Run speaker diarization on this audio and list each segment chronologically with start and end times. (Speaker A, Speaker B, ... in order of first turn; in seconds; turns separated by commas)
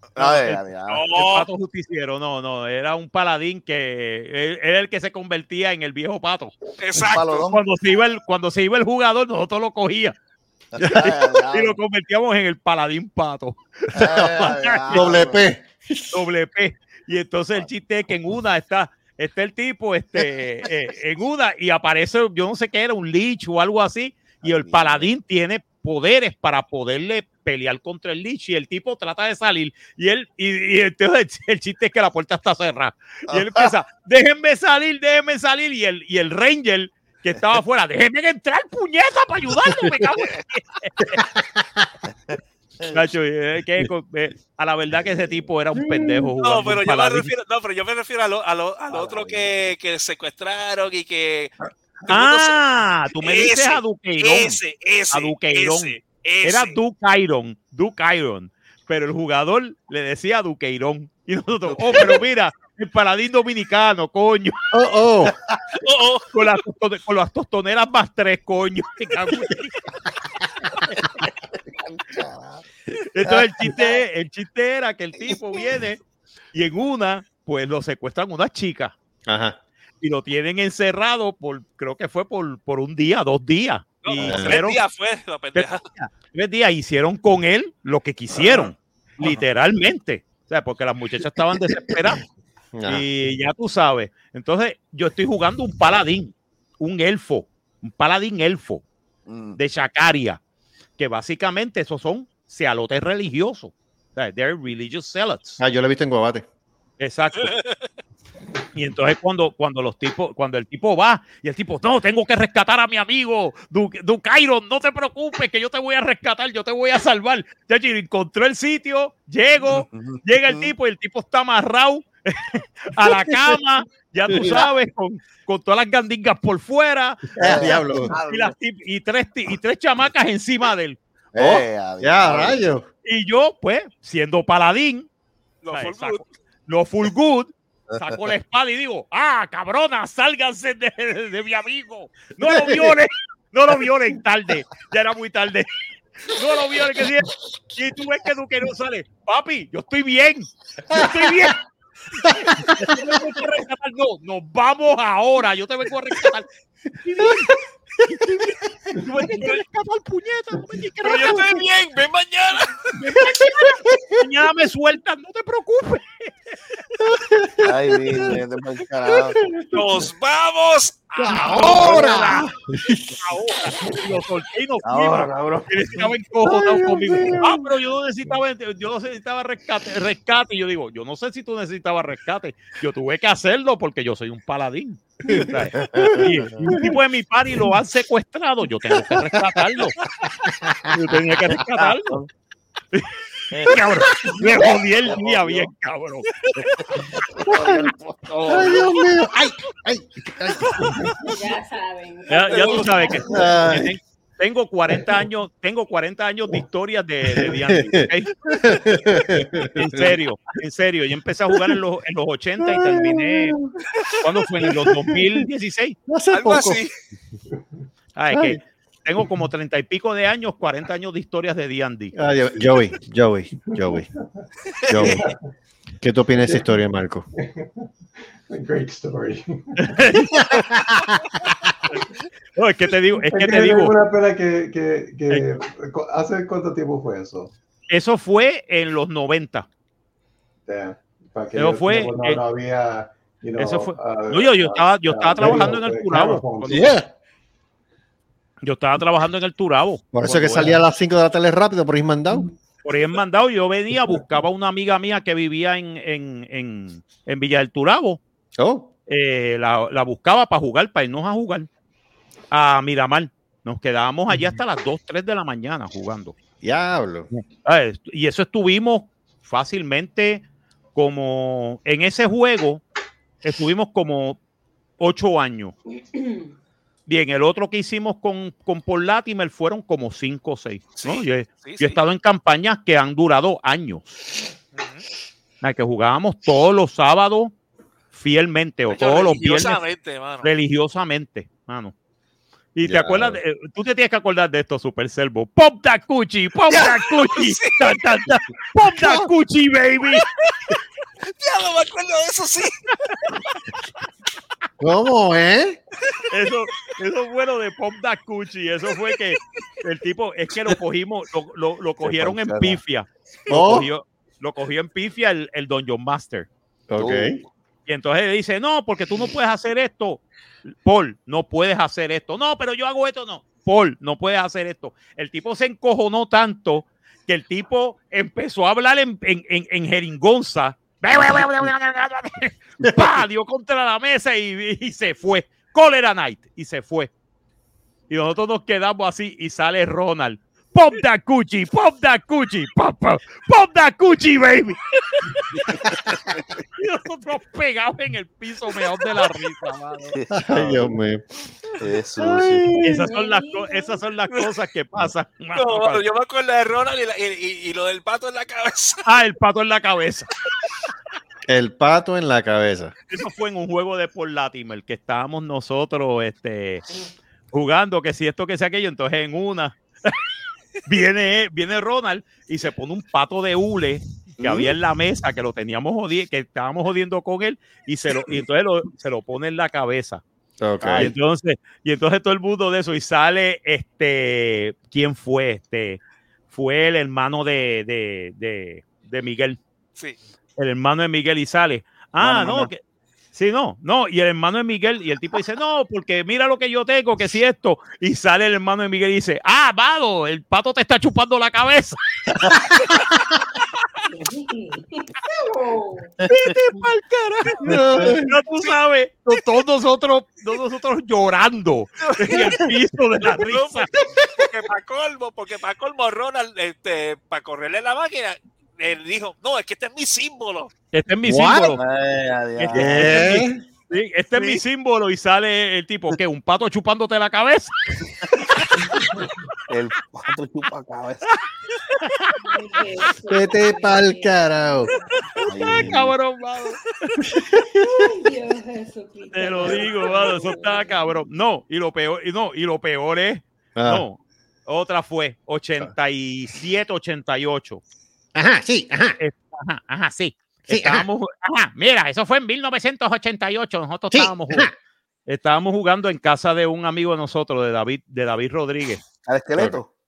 Speaker A: 0.2-1.1, Speaker B: 0.2-0.6, Speaker C: 0.9-1.5, Speaker B: 1.1-6.5, Speaker C: 6.8-7.4, Speaker A: 7.0-7.6, Speaker B: 7.5-10.2, Speaker A: 10.7-11.8, Speaker B: 10.8-13.6, Speaker A: 13.9-15.4, Speaker D: 13.9-16.2, Speaker B: 14.2-15.3, Speaker B: 16.1-41.2, Speaker A: 24.4-25.1, Speaker A: 33.3-33.7, Speaker D: 39.7-39.9, Speaker D: 41.1-41.9, Speaker A: 42.3-43.1, Speaker B: 42.9-47.3, Speaker D: 45.7-46.3, Speaker C: 46.4-51.5, Speaker A: 48.9-49.5, Speaker C: 52.1-52.6, Speaker B: 52.1-54.6, Speaker C: 53.2-56.8, Speaker B: 55.1-64.5, Speaker A: 61.6-62.3, Speaker D: 64.7-65.3, Speaker A: 65.3-65.6, Speaker C: 65.8-66.6, Speaker B: 66.3-69.7, Speaker A: 71.7-72.6, Speaker B: 73.1-76.0, Speaker A: 73.2-74.0, Speaker B: 76.5-79.0, Speaker D: 79.3-79.6, Speaker B: 80.0-84.8, Speaker C: 84.0-85.9, Speaker D: 84.2-84.6, Speaker B: 85.5-92.2, Speaker D: 92.7-93.1, Speaker B: 92.9-98.8, Speaker A: 99.3-99.6, Speaker B: 99.6-100.4, Speaker B: 101.0-105.6, Speaker D: 105.6-106.4, Speaker B: 107.0-107.5, Speaker B: 108.8-131.0, Speaker A: 119.6-120.7, Speaker D: 123.0-123.6, Speaker D: 124.3-124.6, Speaker A: 124.3-124.7, Speaker D: 127.4-128.1, Speaker A: 127.4-128.6, Speaker A: 131.3-132.6, Speaker D: 131.3-132.9, Speaker B: 133.0-135.1, Speaker C: 135.6-136.3, Speaker B: 135.7-145.7, Speaker A: 137.9-138.2, Speaker D: 142.4-142.9, Speaker B: 146.3-151.6, Speaker D: 150.9-151.6, Speaker B: 152.3-156.5, Speaker D: 152.3-153.0, Speaker B: 157.0-157.5, Speaker D: 157.2-157.4, Speaker B: 158.1-161.6, Speaker D: 158.2-158.6, Speaker C: 161.0-162.9, Speaker B: 163.0-166.6, Speaker D: 163.1-164.2, Speaker D: 167.0-168.4, Speaker A: 167.6-169.4, Speaker D: 169.1-169.6, Speaker C: 169.7-172.3, Speaker D: 171.2-173.4, Speaker B: 171.2-172.5, Speaker B: 173.2-189.9, Speaker A: 174.8-176.1, Speaker D: 176.4-177.7, Speaker D: 185.3-187.0, Speaker A: 185.3-186.8, Speaker D: 190.5-191.1, Speaker B: 190.9-192.2, Speaker A: 191.6-192.2, Speaker A: 193.5-195.7, Speaker B: 193.7-197.2, Speaker D: 193.7-194.6, Speaker A: 197.3-198.9, Speaker D: 197.5-197.9, Speaker D: 198.5-201.4, Speaker E: 201.2-203.4, Speaker B: 202.3-208.4, Speaker D: 203.2-203.9, Speaker D: 207.2-210.2, Speaker B: 209.8-213.6, Speaker D: 212.6-213.7, Speaker B: 214.2-216.0, Speaker D: 214.6-215.2, Speaker D: 216.1-216.8, Speaker C: 216.3-216.9, Speaker B: 218.2-222.2, Speaker D: 218.3-218.6, Speaker D: 222.1-224.1, Speaker D: 224.9-225.3, Speaker F: 225.0-225.4, Speaker D: 226.0-227.3, Speaker F: 226.4-226.7, Speaker F: 227.3-227.9, Speaker F: 228.5-230.0, Speaker B: 229.8-230.7, Speaker D: 230.3-231.2, Speaker B: 232.6-234.0, Speaker F: 233.2-237.5, Speaker B: 237.9-239.7, Speaker F: 240.7-246.9, Speaker B: 241.6-242.4, Speaker B: 243.6-247.0, Speaker D: 246.7-247.1, Speaker B: 248.6-250.7, Speaker D: 250.1-252.5, Speaker B: 252.8-258.2, Speaker D: 258.6-258.9, Speaker B: 259.1-261.7, Speaker B: 262.5-266.4, Speaker D: 266.6-267.3, Speaker B: 267.3-272.8, Speaker B: 273.4-274.4, Speaker B: 275.0-275.8, Speaker B: 277.1-284.1, Speaker C: 281.0-282.0, Speaker C: 284.7-285.1, Speaker B: 285.6-287.5, Speaker B: 288.1-289.8, Speaker C: 288.9-290.5, Speaker B: 290.4-291.9, Speaker B: 292.8-300.2, Speaker D: 292.9-293.4, Speaker C: 296.7-298.0, Speaker D: 298.8-299.3, Speaker C: 300.1-300.6, Speaker C: 301.4-302.8, Speaker D: 304.8-305.8, Speaker B: 306.3-316.5, Speaker A: 312.0-312.8, Speaker D: 313.5-313.9, Speaker D: 316.9-317.4, Speaker A: 317.0-317.5, Speaker B: 317.9-337.1, Speaker D: 332.9-333.1, Speaker B: 338.1-344.8, Speaker B: 346.8-350.1, Speaker A: 350.1-351.0, Speaker D: 350.3-351.2, Speaker A: 351.8-352.8, Speaker D: 352.2-353.1, Speaker B: 352.8-356.0, Speaker E: 353.0-354.0, Speaker C: 355.6-359.1, Speaker B: 359.1-360.3, Speaker D: 361.5-362.9, Speaker B: 363.1-366.8, Speaker B: 367.5-370.2, Speaker B: 370.9-380.2, Speaker A: 374.4-374.8, Speaker D: 380.6-381.1, Speaker A: 380.8-381.2, Speaker B: 380.9-389.6, Speaker B: 390.6-392.8, Speaker A: 392.2-392.7, Speaker B: 393.3-402.0, Speaker D: 402.5-402.8, Speaker E: 404.2-406.1, Speaker B: 406.3-413.9, Speaker D: 407.6-408.3, Speaker C: 412.0-412.6, Speaker C: 413.4-420.7, Speaker B: 420.9-421.8, Speaker D: 421.2-421.8, Speaker A: 421.8-423.3, Speaker B: 422.6-427.7, Speaker D: 422.7-423.6, Speaker C: 424.3-424.6, Speaker A: 429.7-431.2, Speaker B: 432.0-432.3, Speaker E: 432.4-435.1, Speaker D: 433.3-434.9, Speaker A: 435.4-436.1, Speaker B: 435.6-436.8, Speaker D: 437.3-437.9, Speaker E: 437.8-441.0, Speaker B: 439.3-447.8, Speaker D: 443.8-444.1, Speaker D: 448.4-449.2, Speaker B: 449.2-454.7, Speaker D: 450.7-451.1, Speaker D: 454.1-454.7, Speaker B: 455.3-459.1, Speaker A: 459.3-459.9